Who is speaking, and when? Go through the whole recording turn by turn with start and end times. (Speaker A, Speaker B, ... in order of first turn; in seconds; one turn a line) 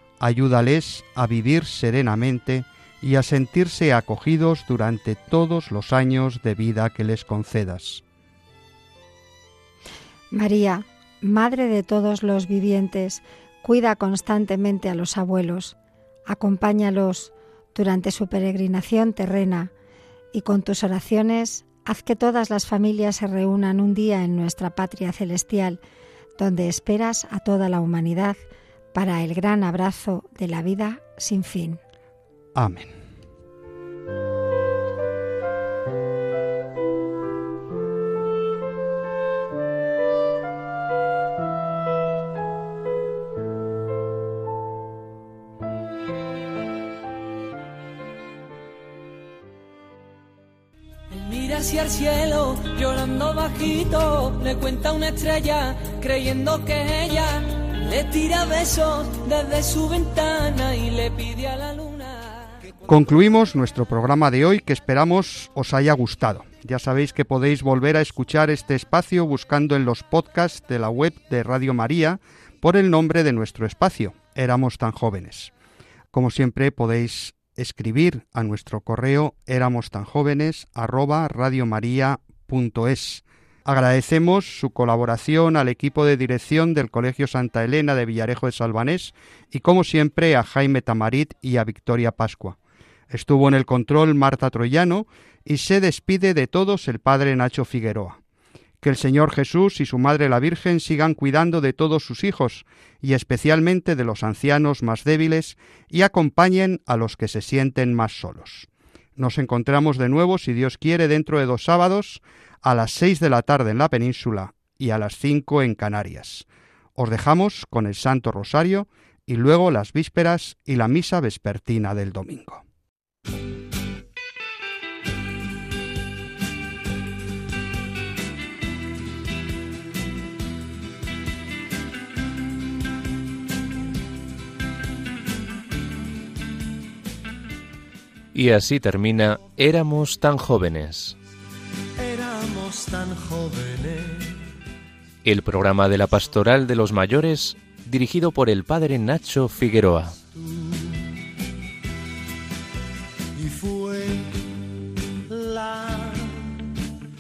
Speaker A: 0.2-8.0
Speaker B: 10.3-15.7
Speaker B: 16.3-19.7
Speaker B: 20.3-25.8
Speaker B: 26.4-28.4
Speaker B: 28.9-31.8
Speaker A: 32.5-33.0
Speaker C: 51.1-62.5
Speaker A: 62.9-75.5
Speaker A: 76.1-92.6
Speaker A: 93.1-98.2
Speaker A: 98.8-122.6
Speaker D: 138.3-141.2
Speaker E: 142.0-144.4
Speaker D: 145.2-150.1
Speaker E: 150.3-151.1
Speaker E: 153.3-154.5
Speaker E: 155.3-156.7